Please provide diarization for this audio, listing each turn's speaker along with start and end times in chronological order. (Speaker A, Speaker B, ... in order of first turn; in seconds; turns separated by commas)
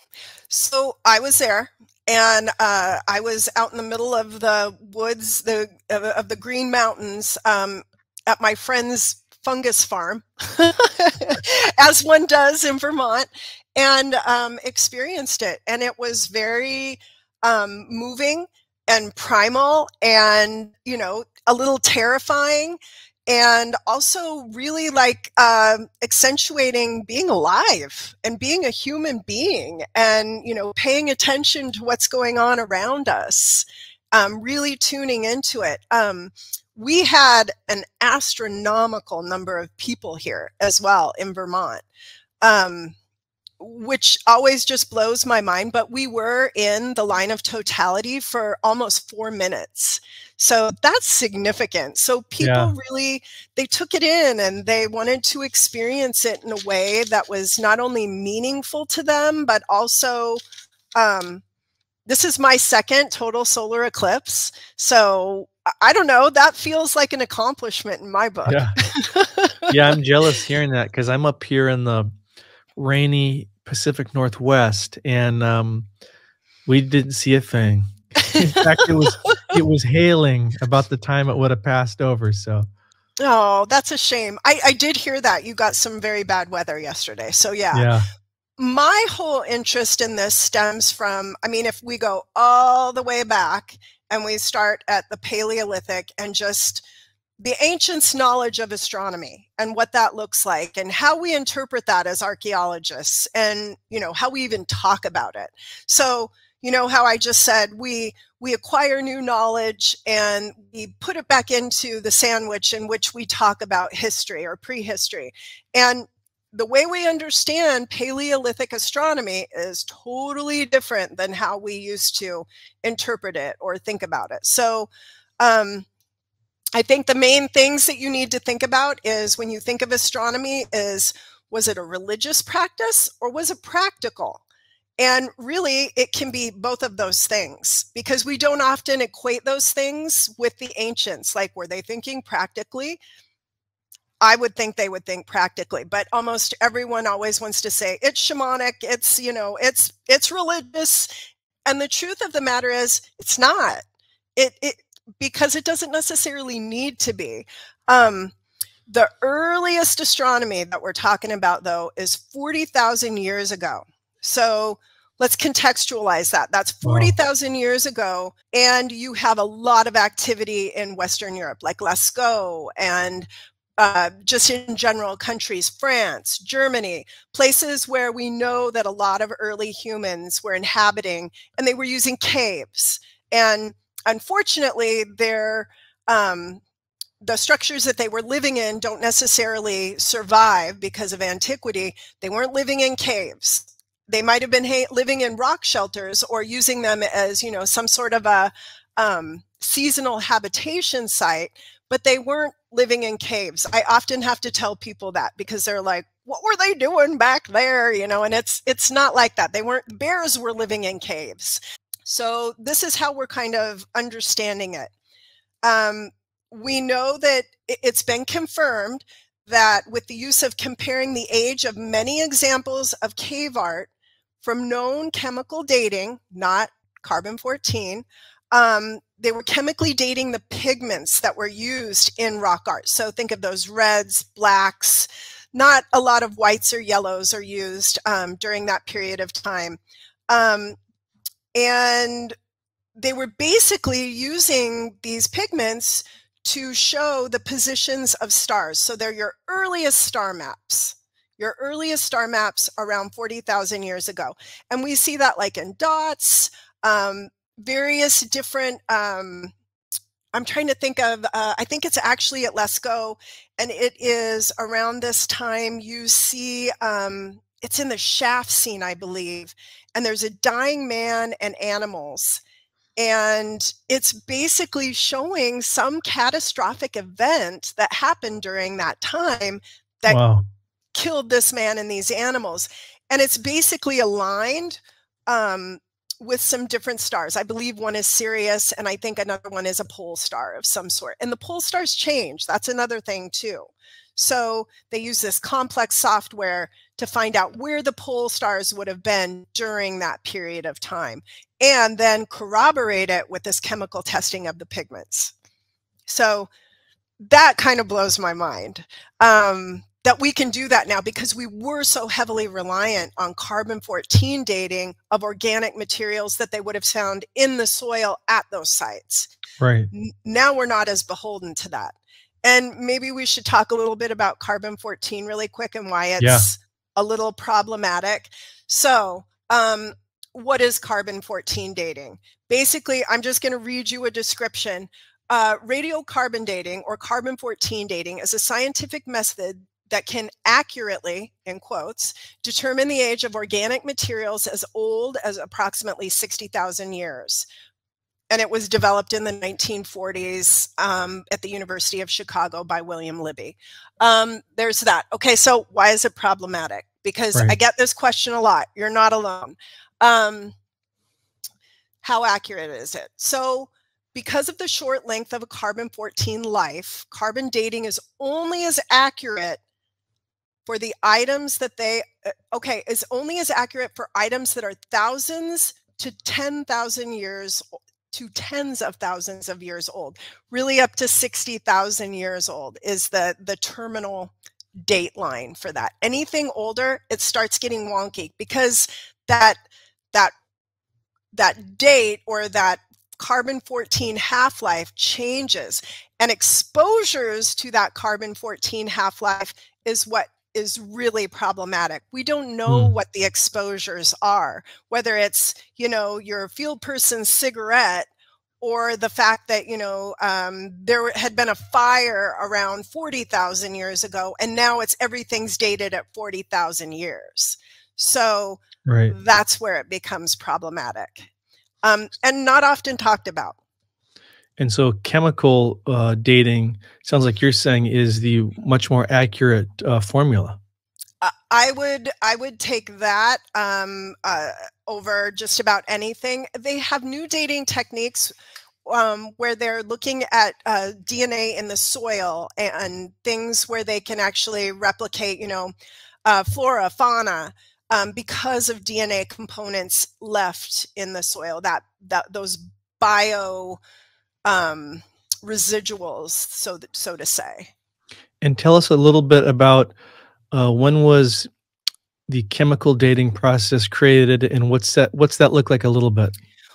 Speaker A: 0.5-41.8, Speaker A: 42.4-42.9, Speaker A: 43.6-60.4, Speaker B: 52.4-52.7, Speaker A: 61.0-61.4, Speaker A: 62.1-69.7, Speaker B: 68.5-68.8, Speaker B: 69.7-72.1, Speaker B: 72.8-75.9, Speaker B: 76.7-82.7, Speaker A: 78.2-79.6, Speaker A: 83.2-87.9, Speaker B: 87.7-88.0, Speaker A: 88.6-96.8, Speaker A: 97.4-124.9, Speaker A: 125.4-125.8, Speaker A: 126.7-134.4, Speaker A: 135.0-143.0, Speaker A: 144.2-151.1, Speaker A: 151.7-153.8, Speaker A: 154.3-158.3, Speaker A: 158.9-186.6, Speaker B: 166.8-167.1, Speaker A: 187.2-214.9, Speaker A: 215.6-223.9, Speaker A: 224.4-239.8, Speaker A: 240.3-240.8, Speaker A: 241.5-242.3, Speaker A: 242.9-259.5, Speaker A: 260.3-272.4, Speaker A: 273.0-280.2, Speaker B: 280.1-280.4, Speaker A: 280.9-305.3, Speaker A: 306.1-306.5, Speaker A: 307.2-319.3, Speaker B: 319.6-319.9, Speaker A: 319.9-347.4, Speaker B: 326.2-326.4, Speaker A: 348.3-360.5, Speaker A: 362.0-369.6, Speaker A: 370.6-384.3, Speaker A: 384.8-389.6, Speaker A: 391.3-408.1, Speaker B: 402.7-402.9, Speaker A: 408.6-421.3, Speaker B: 418.9-419.1, Speaker A: 421.8-423.6, Speaker B: 424.6-430.6, Speaker A: 431.2-438.3, Speaker A: 438.9-445.7, Speaker A: 446.2-453.8, Speaker A: 454.4-457.7, Speaker B: 458.4-459.9, Speaker B: 460.5-461.5, Speaker B: 462.3-466.3